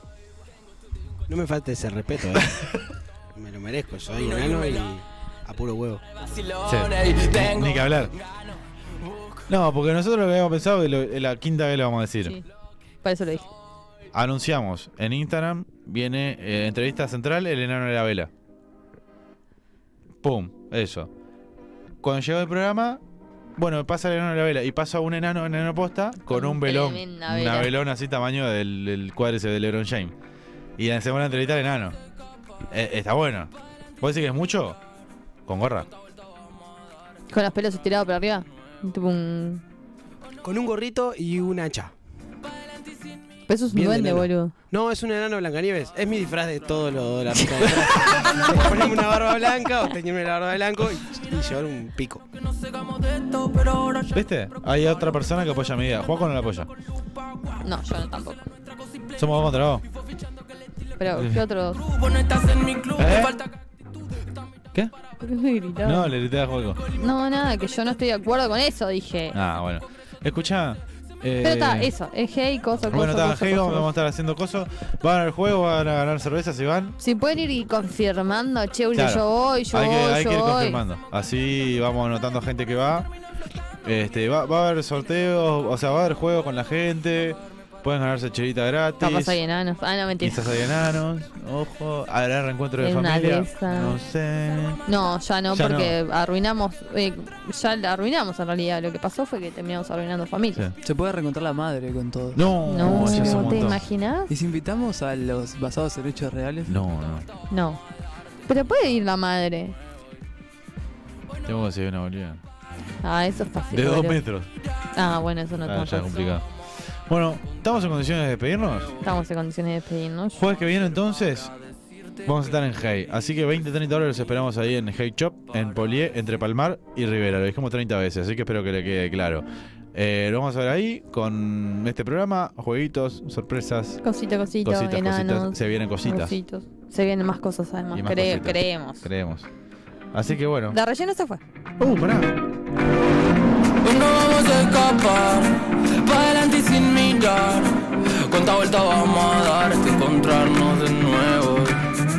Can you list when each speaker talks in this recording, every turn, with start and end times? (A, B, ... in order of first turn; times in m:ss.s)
0:01.3-0:02.7 A
0:03.3-0:06.0 A
0:06.6-0:08.1 B
0:09.5-0:12.4 B
0:13.0-0:13.5 C
0:14.1-0:18.3 B
0:20.2-0:21.1 B
0:22.0-0:23.0 B
0:23.6-0:30.1 B
0:26.3-0:27.7 C
0:30.8-0:32.0 B
0:32.7-0:34.8 B
0:35.5-0:35.9 B
0:37.3-0:39.6 C
0:40.4-0:41.9 A
0:43.5-0:44.5 C
0:43.7-0:52.2 A
0:53.0-0:54.1 D
0:54.1-0:56.7 B
0:57.6-0:58.4 C
0:59.2-0:59.8 B
1:01.0-1:01.8 C
1:01.8-1:03.5 D
1:03.0-1:03.4 B
1:05.2-1:06.1 C
1:05.8-1:06.8 B
1:06.9-1:09.4 C
1:09.3-1:11.9 B
1:11.4-1:13.9 C
1:12.9-1:17.0 B
1:17.0-1:20.8 C
1:18.9-1:23.1 B
1:23.8-1:29.4 B
1:29.0-1:30.5 C
1:30.2-1:34.8 B
1:32.8-1:33.9 C
1:34.9-1:40.6 C
1:35.5-1:36.0 B
1:40.8-1:43.8 E
1:42.3-1:43.8 B
1:42.6-1:44.3 C
1:44.3-1:46.8 E
1:46.7-1:47.3 B
1:47.5-1:47.8 C
1:48.4-1:49.8 C
1:51.4-1:52.4 B
1:53.0-1:54.2 C
1:53.7-1:54.5 B
1:54.9-1:56.1 C
1:55.6-1:59.0 B
1:59.0-2:00.4 C
2:00.3-2:01.5 B
2:02.2-2:14.0 B
2:14.0-2:19.1 C
2:14.6-2:16.3 B
2:17.9-2:19.5 B
2:20.1-2:20.8 B
2:20.7-2:21.4 C
2:21.8-2:22.3 B
2:23.8-2:31.8 D